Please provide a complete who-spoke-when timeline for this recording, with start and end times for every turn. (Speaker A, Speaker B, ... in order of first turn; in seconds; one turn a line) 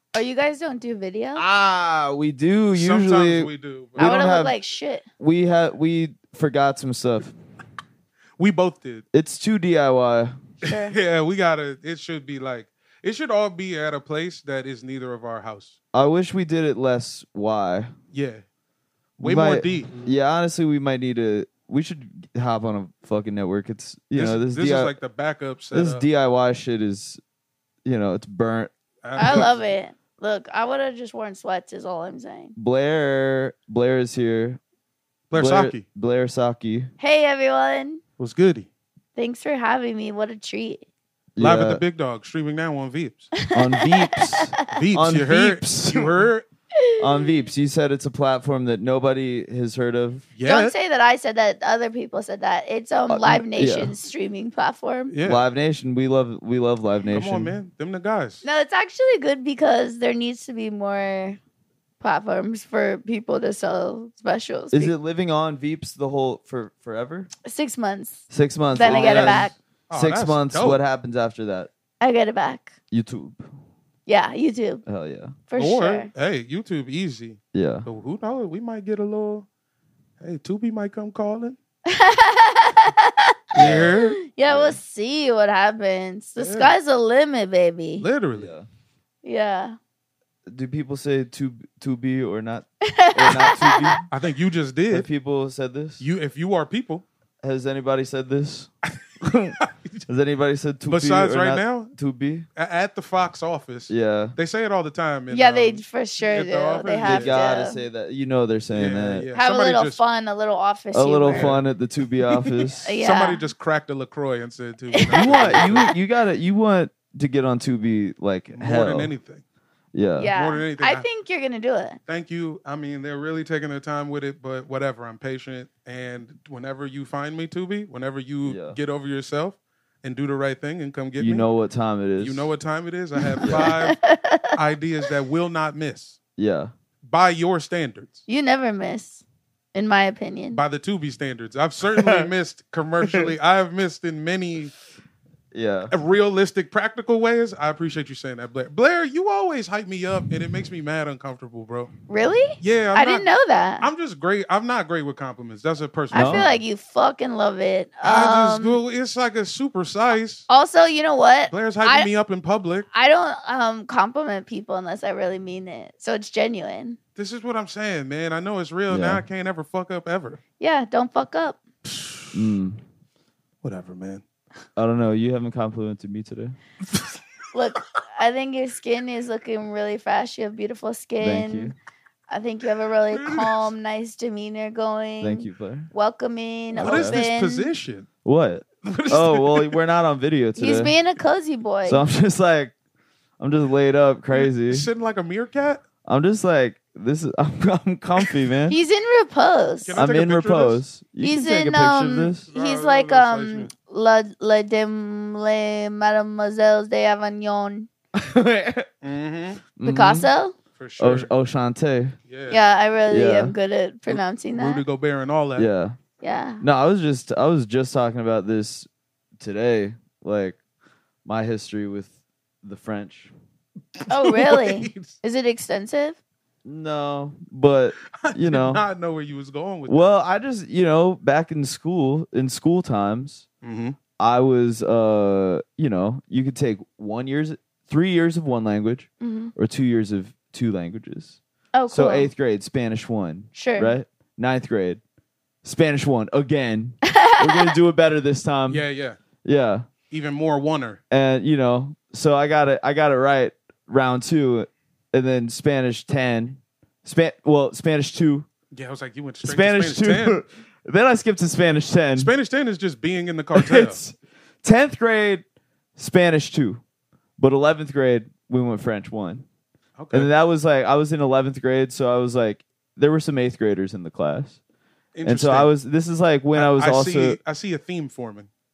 Speaker A: 0.1-1.4
Speaker B: 1.4-4.6
Speaker C: 2.7-4.2
Speaker A: 4.0-5.0
Speaker B: 5.2-7.3
Speaker C: 8.4-9.0
Speaker B: 9.1-10.3
Speaker A: 10.6-10.9
Speaker C: 10.6-15.8
Speaker B: 15.9-17.9
Speaker C: 18.1-18.4
Speaker C: 19.2-19.9
Speaker B: 19.2-24.9
Speaker C: 24.2-26.1
Speaker B: 25.7-27.2
Speaker B: 27.8-28.7
Speaker C: 29.0-29.6
Speaker A: 29.2-32.5
Speaker B: 32.6-34.6
Speaker C: 35.3-35.8
Speaker B: 35.3-36.9
Speaker A: 37.0-38.0
Speaker C: 38.2-38.7
Speaker A: 39.2-40.8
Speaker B: 41.4-41.8
Speaker C: 41.4-43.3
Speaker A: 43.4-44.6
Speaker B: 43.5-46.3
Speaker C: 44.7-46.5
Speaker A: 46.8-47.3
Speaker B: 47.0-50.3
Speaker C: 50.4-50.7
Speaker A: 50.5-55.1
Speaker B: 53.1-53.9
Speaker C: 55.1-55.4
Speaker B: 55.2-57.6
Speaker C: 57.1-58.4
Speaker A: 58.4-61.4
Speaker A: 62.0-64.9
Speaker B: 64.7-67.3
Speaker A: 67.5-69.5
Speaker B: 68.3-71.7
Speaker C: 68.8-70.8
Speaker A: 72.0-72.7
Speaker B: 72.9-73.5
Speaker A: 74.1-74.8
Speaker B: 74.9-75.4
Speaker A: 75.5-76.1
Speaker C: 75.6-79.5
Speaker B: 77.5-77.9
Speaker C: 80.2-81.6
Speaker A: 81.9-88.1
Speaker C: 83.5-84.2
Speaker B: 83.5-84.8
Speaker C: 86.4-86.8
Speaker C: 88.0-88.5
Speaker B: 88.4-88.7
Speaker A: 89.2-89.8
Speaker B: 90.5-94.0
Speaker A: 92.8-94.0
Speaker C: 94.1-95.1
Speaker B: 94.9-96.0
Speaker C: 96.0-97.0
Speaker B: 97.4-98.7
Speaker B: 99.2-99.6
Speaker C: 99.6-100.0
Speaker B: 100.1-102.5
Speaker C: 100.9-101.9
Speaker C: 102.6-107.3
Speaker B: 103.9-104.3
Speaker A: 105.3-107.8
Speaker B: 107.0-109.3
Speaker C: 108.7-110.0
Speaker A: 109.3-111.6
Speaker B: 110.9-112.9
Speaker C: 111.3-111.6
Speaker C: 112.3-115.9
Speaker A: 112.8-113.5
Speaker A: 114.9-115.9
Speaker B: 115.1-119.1
Speaker C: 118.5-119.4
Speaker B: 119.9-120.3
Speaker A: 120.2-122.0
Speaker C: 120.3-121.0
Speaker C: 122.1-131.5
Speaker B: 128.5-128.8
Speaker B: 131.2-132.5
Speaker C: 132.2-136.2
Speaker B: 133.4-133.8
Speaker A: 133.4-134.5
Speaker B: 136.4-136.7
Speaker C: 137.1-138.2
Speaker A: 138.3-139.2
Speaker A: 139.8-140.6
Speaker C: 140.5-144.7
Speaker B: 141.9-142.3
Speaker B: 143.0-143.3
Speaker B: 145.5-145.9
Speaker C: 145.9-151.9
Speaker A: 152.1-153.9
Speaker C: 152.6-153.3
Speaker C: 153.8-156.6
Speaker B: 156.1-156.5
Speaker A: 156.1-158.8
Speaker C: 158.0-160.5
Speaker A: 160.5-162.1
Speaker C: 161.5-162.9
Speaker A: 162.9-167.0
Speaker C: 167.2-170.4
Speaker B: 168.9-169.2
Speaker A: 170.6-171.6
Speaker C: 171.9-172.4
Speaker B: 172.3-172.8
Speaker C: 173.6-174.2
Speaker B: 174.8-176.6
Speaker A: 177.5-181.7
Speaker B: 181.2-181.8
Speaker A: 182.3-187.7
Speaker C: 183.2-183.6
Speaker B: 185.2-185.9
Speaker B: 186.7-187.2
Speaker C: 186.8-188.1
Speaker B: 188.2-190.9
Speaker C: 188.8-189.8
Speaker A: 190.6-192.0
Speaker B: 191.8-192.7
Speaker B: 193.4-194.9
Speaker C: 194.3-195.8
Speaker B: 196.1-198.8
Speaker A: 198.7-200.0
Speaker C: 199.8-200.8
Speaker B: 200.0-202.5
Speaker A: 201.2-207.9
Speaker C: 202.5-203.7
Speaker B: 208.1-208.9
Speaker C: 209.0-209.6
Speaker B: 209.8-210.3
Speaker A: 209.8-210.6
Speaker C: 210.8-211.3
Speaker B: 211.0-212.2
Speaker C: 212.3-212.6
Speaker A: 212.5-214.8
Speaker B: 213.1-213.5
Speaker C: 214.5-215.7
Speaker B: 215.6-216.0
Speaker A: 216.2-216.6
Speaker B: 216.6-218.9
Speaker B: 219.4-220.6
Speaker B: 221.2-223.3
Speaker C: 224.0-225.2
Speaker A: 224.1-226.2
Speaker B: 226.7-228.8
Speaker C: 228.2-230.1
Speaker B: 229.9-233.4
Speaker C: 233.6-234.0
Speaker B: 234.2-241.4
Speaker A: 239.2-239.5
Speaker A: 241.8-242.3
Speaker B: 241.9-245.0
Speaker A: 243.6-243.9
Speaker B: 245.6-248.8
Speaker A: 247.0-247.8
Speaker C: 248.7-249.2
Speaker B: 249.4-249.9
Speaker C: 250.1-251.0
Speaker B: 251.1-258.5
Speaker C: 258.7-260.4
Speaker B: 259.4-262.3
Speaker C: 262.1-264.0
Speaker B: 263.6-265.4
Speaker B: 266.0-266.8
Speaker B: 267.4-269.4
Speaker C: 270.0-270.3
Speaker B: 270.1-274.6
Speaker C: 275.1-275.7
Speaker B: 275.2-277.4
Speaker C: 276.5-278.5